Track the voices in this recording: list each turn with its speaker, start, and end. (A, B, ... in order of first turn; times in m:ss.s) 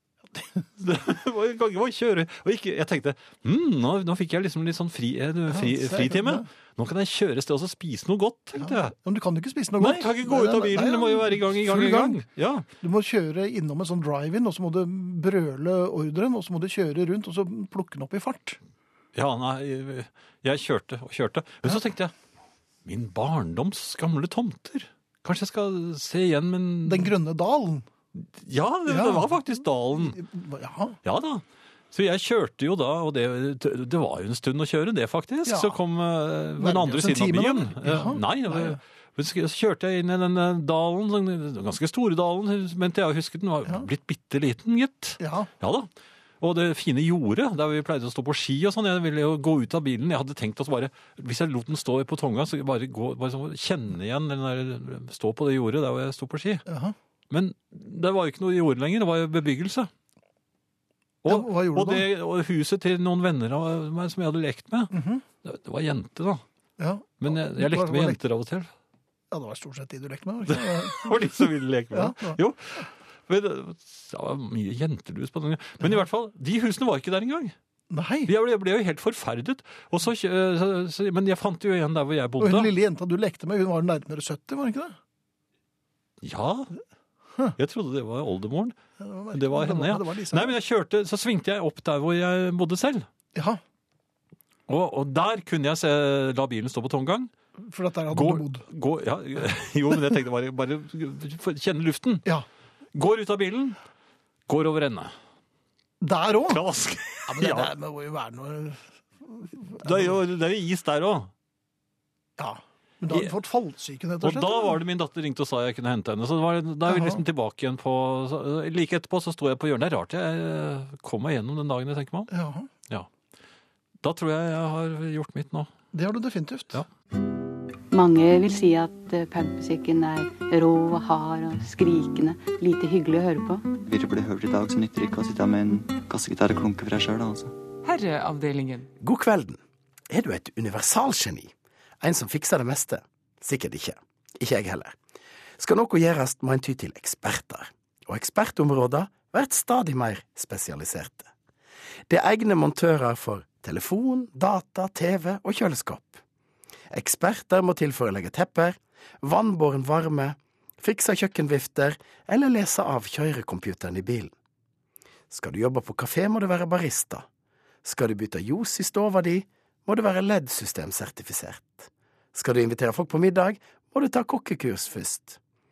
0:00.4-0:00.6 A
0:00.8-0:09.0 B
0:05.5-0:06.5 A
0:08.6-0:12.2 A
0:09.8-0:12.7 B
0:12.8-0:18.6 A
0:19.1-0:22.1 B
0:22.8-0:27.1 B
0:26.8-0:27.9 A
0:28.2-0:30.2 B
0:28.9-0:29.4 A
0:29.9-0:31.0 A
0:31.0-0:45.9 B
0:35.4-0:35.8 A
0:36.6-0:38.8 A
0:45.2-0:45.5 A
0:46.4-0:56.6 B
0:56.7-0:57.0 A
0:57.3-0:59.9 B
1:01.2-1:04.9 B
1:01.2-1:02.1 A
1:04.9-1:05.2 A
1:05.4-1:06.4 B
1:06.8-1:08.2 A
1:07.2-1:08.7 B
1:09.3-1:12.4 A
1:10.5-1:17.5 B
1:17.9-1:18.3 A
1:18.2-1:22.7 B
1:22.4-1:25.0 A
1:26.2-1:26.7 B
1:27.6-1:28.7 B
1:29.0-1:30.6 A
1:29.3-1:33.1 B
1:33.3-1:33.6 A
1:34.7-1:37.3 B
1:37.6-1:38.6 A
1:38.1-1:42.3 B
1:42.9-1:43.8 B
1:44.5-1:45.1 B
1:46.0-1:46.6 A
1:46.5-1:47.7 B
1:47.3-1:50.2 A
1:49.8-1:51.3 B
1:52.4-1:54.8 A
1:54.2-2:02.3 B
1:56.8-1:57.2 A
2:02.3-2:02.7 A
2:04.0-2:05.7 B
2:05.9-2:06.8 A
2:07.9-2:13.8 C
2:13.8-2:17.5 D
2:19.0-2:24.9 E
2:25.6-2:31.3 E
2:32.1-2:36.2 E
2:36.9-2:44.3 E
2:45.3-2:47.2 E
2:47.8-2:55.4 E